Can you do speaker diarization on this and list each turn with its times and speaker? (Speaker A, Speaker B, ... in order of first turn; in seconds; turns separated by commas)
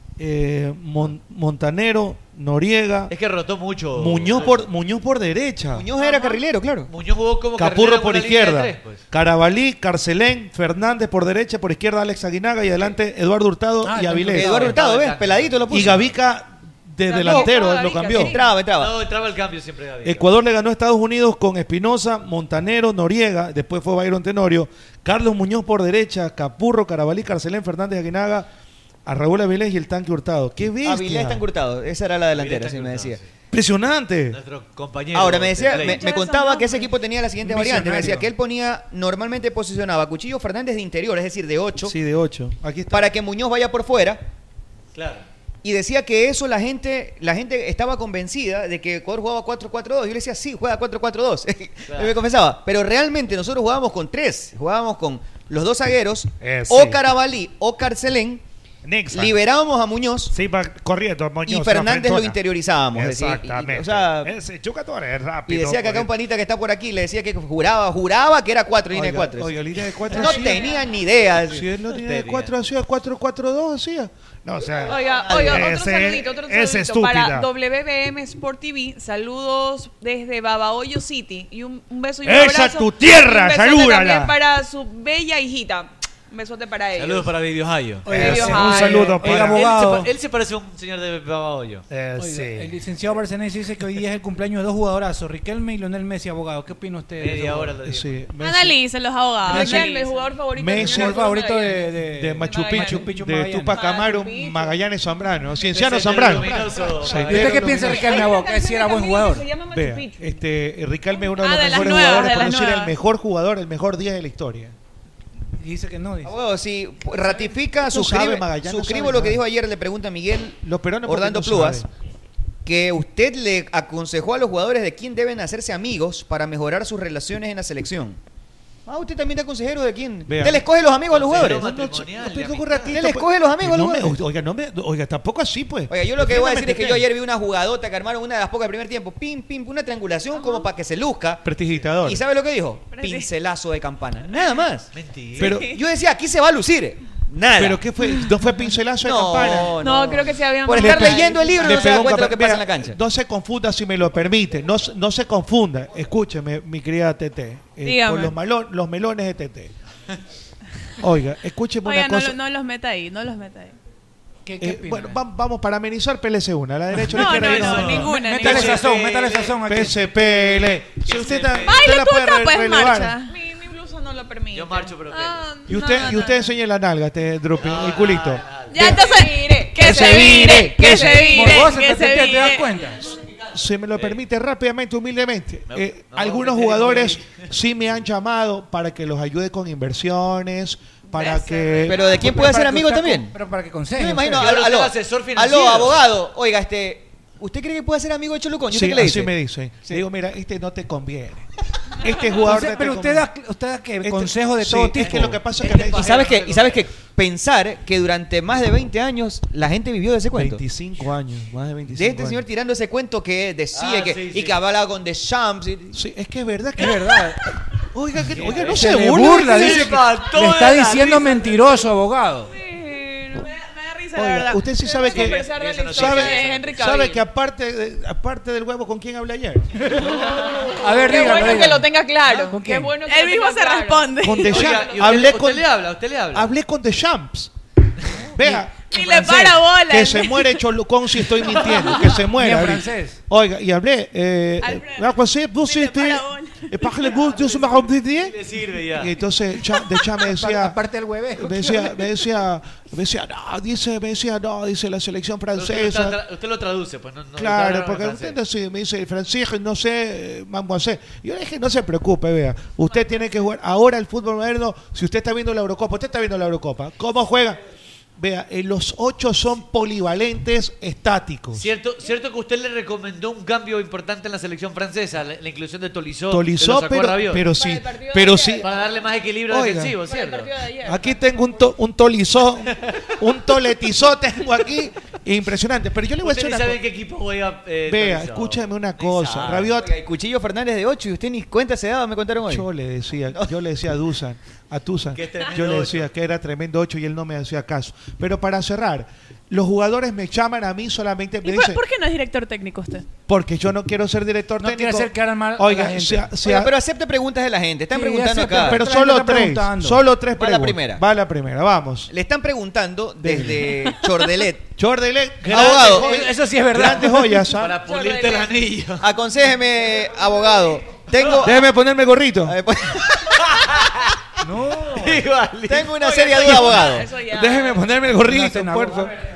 Speaker A: 0.2-3.1, Speaker B: 3.1-4.7, Speaker A: 3.9-5.9, Speaker C: 5.7-6.9, Speaker D: 6.0-6.4, Speaker B: 6.9-9.0, Speaker A: 7.6-14.7, Speaker E: 13.8-14.7, Speaker C: 14.3-16.0, Speaker B: 14.3-16.1, Speaker A: 15.7-18.4, Speaker D: 17.1-18.5, Speaker C: 18.1-18.9, Speaker B: 18.8-20.3, Speaker A: 20.0-28.5, Speaker A: 29.1-31.4, Speaker C: 30.8-33.2, Speaker B: 32.3-33.2, Speaker A: 33.5-34.4, Speaker B: 34.3-36.0, Speaker C: 35.1-42.0, Speaker D: 35.7-37.0, Speaker E: 37.4-38.2, Speaker A: 41.8-43.1, Speaker C: 42.9-44.2, Speaker B: 44.9-45.3, Speaker C: 45.6-58.4, Speaker B: 51.9-52.1, Speaker F: 56.4-57.0, Speaker F: 58.8-59.4, Speaker C: 59.1-60.3, Speaker F: 60.3-62.3, Speaker C: 61.5-64.3, Speaker A: 61.5-61.9, Speaker F: 62.9-66.1, Speaker C: 65.5-69.5, Speaker A: 68.9-70.7, Speaker C: 70.1-71.7, Speaker D: 70.2-70.9, Speaker A: 71.5-75.0, Speaker B: 71.9-72.5, Speaker F: 74.6-77.5, Speaker D: 74.9-87.3, Speaker C: 75.3-75.7, Speaker A: 82.3-84.3, Speaker F: 82.3-82.7, Speaker F: 83.2-84.3, Speaker B: 87.0-91.9, Speaker E: 88.0-90.1, Speaker D: 88.1-89.1, Speaker A: 88.4-89.7, Speaker F: 88.9-89.5, Speaker F: 91.9-92.7, Speaker E: 92.2-97.8, Speaker B: 97.2-98.2, Speaker A: 97.9-98.8, Speaker G: 98.4-100.2, Speaker D: 99.4-103.1, Speaker A: 99.4-99.9, Speaker E: 99.5-99.9, Speaker A: 100.5-101.4, Speaker E: 100.8-103.8, Speaker A: 102.1-108.1, Speaker D: 103.7-104.8, Speaker B: 105.7-108.0, Speaker E: 107.1-109.5, Speaker D: 107.3-110.4, Speaker A: 109.7-114.7, Speaker D: 111.2-112.6, Speaker G: 111.4-113.0, Speaker E: 115.6-116.3, Speaker C: 116.2-121.9, Speaker A: 117.9-119.4, Speaker A: 120.6-121.9, Speaker C: 122.6-128.2, Speaker C: 128.9-131.7, Speaker A: 130.3-130.7, Speaker B: 131.1-133.0, Speaker A: 131.3-137.1, Speaker C: 132.9-134.2, Speaker C: 135.9-141.5, Speaker A: 141.4-142.2, Speaker C: 142.0-147.8, Speaker G: 142.9-143.3, Speaker B: 144.9-145.6, Speaker A: 145.4-145.8, Speaker A: 147.6-149.7, Speaker C: 149.0-153.0, Speaker D: 149.7-152.2, Speaker A: 150.7-159.7, Speaker G: 157.8-158.3, Speaker A: 161.0-162.4, Speaker G: 161.8-163.8, Speaker E: 164.4-165.2, Speaker A: 164.6-173.2, Speaker E: 166.9-167.2, Speaker G: 167.1-168.5, Speaker D: 167.2-168.6, Speaker B: 167.3-169.5, Speaker E: 167.8-170.6, Speaker B: 171.0-171.8, Speaker G: 171.7-173.3, Speaker D: 173.2-176.4, Speaker B: 174.5-175.5, Speaker G: 175.2-176.3, Speaker A: 175.7-179.1, Speaker B: 177.6-178.7, Speaker D: 178.7-181.8, Speaker G: 178.7-182.8, Speaker A: 179.8-181.6, Speaker E: 180.6-183.0, Speaker A: 183.0-192.4, Speaker B: 185.7-187.5, Speaker D: 191.1-192.0, Speaker C: 191.8-193.4, Speaker E: 192.1-194.4, Speaker C: 193.9-199.3, Speaker B: 194.2-196.0, Speaker A: 198.7-203.3, Speaker E: 202.4-205.4, Speaker A: 204.0-206.2, Speaker B: 205.6-206.8, Speaker C: 205.7-210.6, Speaker A: 210.3-212.4, Speaker C: 211.9-216.0, Speaker B: 213.7-214.6, Speaker A: 215.9-217.2, Speaker E: 216.8-217.4, Speaker A: 217.9-219.9, Speaker B: 218.3-221.6, Speaker E: 218.6-222.5, Speaker D: 222.4-227.2, Speaker A: 224.1-229.8, Speaker B: 225.1-226.8, Speaker E: 229.8-232.9, Speaker D: 230.0-235.2, Speaker G: 233.0-234.7, Speaker A: 234.2-235.7, Speaker B: 234.4-236.5, Speaker A: 236.3-237.5, Speaker A: 238.3-248.4, Speaker E: 238.4-238.6, Speaker G: 238.9-240.6, Speaker E: 242.1-243.2, Speaker G: 244.6-246.7, Speaker B: 247.1-249.2, Speaker A: 248.9-250.8, Speaker E: 250.2-252.1, Speaker A: 251.4-256.2, Speaker B: 255.5-258.4, Speaker A: 257.4-267.6, Speaker A: 268.2-271.7, Speaker B: 271.5-277.4, Speaker A: 276.3-278.6, Speaker D: 277.4-278.7, Speaker B: 278.6-280.5, Speaker A: 279.5-279.9, Speaker D: 280.0-281.6, Speaker A: 280.8-286.8, Speaker B: 286.2-289.7, Speaker A: 287.9-289.9, Speaker C: 289.6-292.7, Speaker A: 292.5-301.8, Speaker B: 295.1-296.1, Speaker G: 301.4-303.0, Speaker A: 303.3-306.7, Speaker E: 304.6-306.3, Speaker C: 306.4-308.9, Speaker E: 307.9-310.0, Speaker A: 308.5-312.1, Speaker C: 310.3-311.0, Speaker C: 312.1-314.6, Speaker A: 313.2-313.9, Speaker A: 314.8-317.8, Speaker C: 315.5-316.3, Speaker E: 315.5-317.4, Speaker B: 317.5-319.0, Speaker D: 317.8-318.6, Speaker C: 319.0-321.7, Speaker B: 321.2-321.5, Speaker A: 321.4-322.6, Speaker C: 322.4-323.4, Speaker B: 323.3-324.1, Speaker E: 324.4-325.2, Speaker B: 324.9-326.7, Speaker C: 325.7-327.1, Speaker D: 326.0-328.1, Speaker A: 327.3-329.1, Speaker E: 328.2-329.2